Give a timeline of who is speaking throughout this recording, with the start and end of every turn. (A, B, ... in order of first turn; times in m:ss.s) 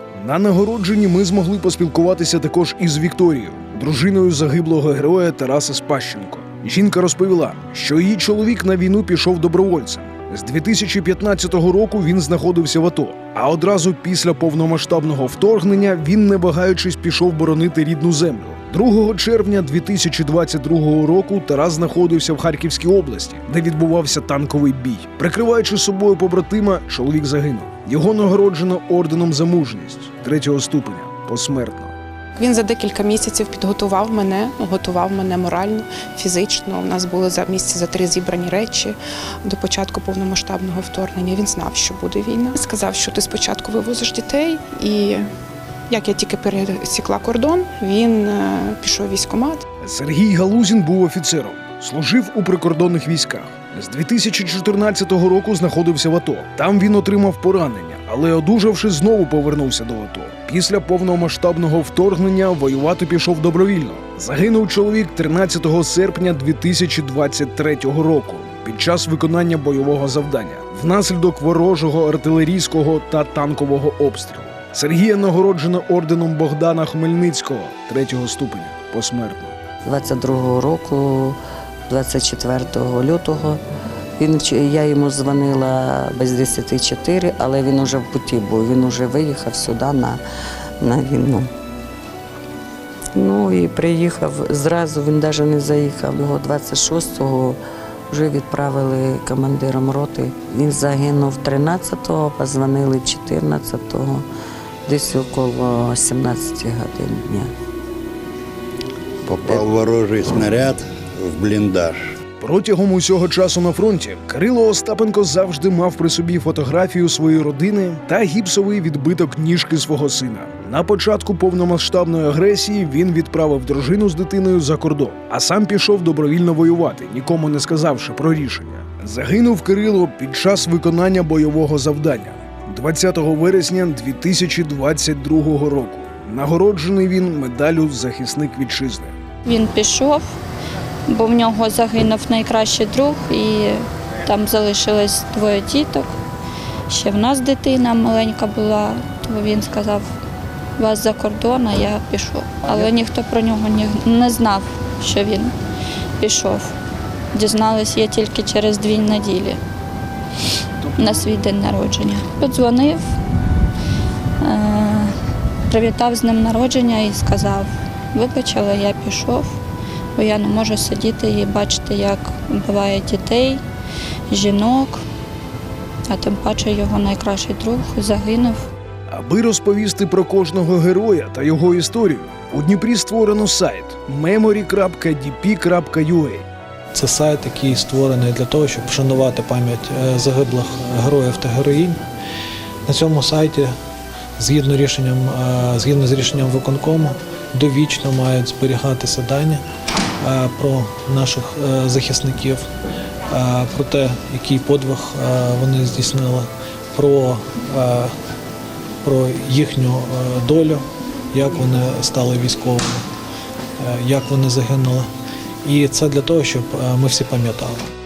0:00.2-0:31.9 A
0:32.4-0:45.3 B
0:45.9-0:49.6 B
0:49.8-1:19.5 A
1:19.8-1:23.6 C
1:24.2-1:30.2 C
1:30.8-1:31.5 C
1:33.1-1:37.6 C
1:38.1-1:44.2 C
1:44.8-1:47.5 C
1:49.2-1:52.1 D
1:52.4-2:19.1 A
2:19.4-2:20.3 E
2:21.1-2:26.1 E
2:26.9-2:30.0 E
2:30.8-2:35.5 E
2:36.2-2:36.7 E
2:37.3-2:39.6 E
2:41.0-2:43.0 E
2:44.4-2:45.1 E
2:45.7-2:49.6 E
2:50.2-2:53.6 E
2:54.3-2:55.0 E
2:56.1-2:58.6 E
2:59.1-3:06.4 A
3:06.9-3:12.0 F
3:12.8-3:13.7 F
3:14.4-3:19.6 F
3:20.2-3:22.6 F
3:23.3-3:28.1 F
3:29.0-3:33.0 F
3:33.8-3:35.1 F
3:35.6-3:37.9 F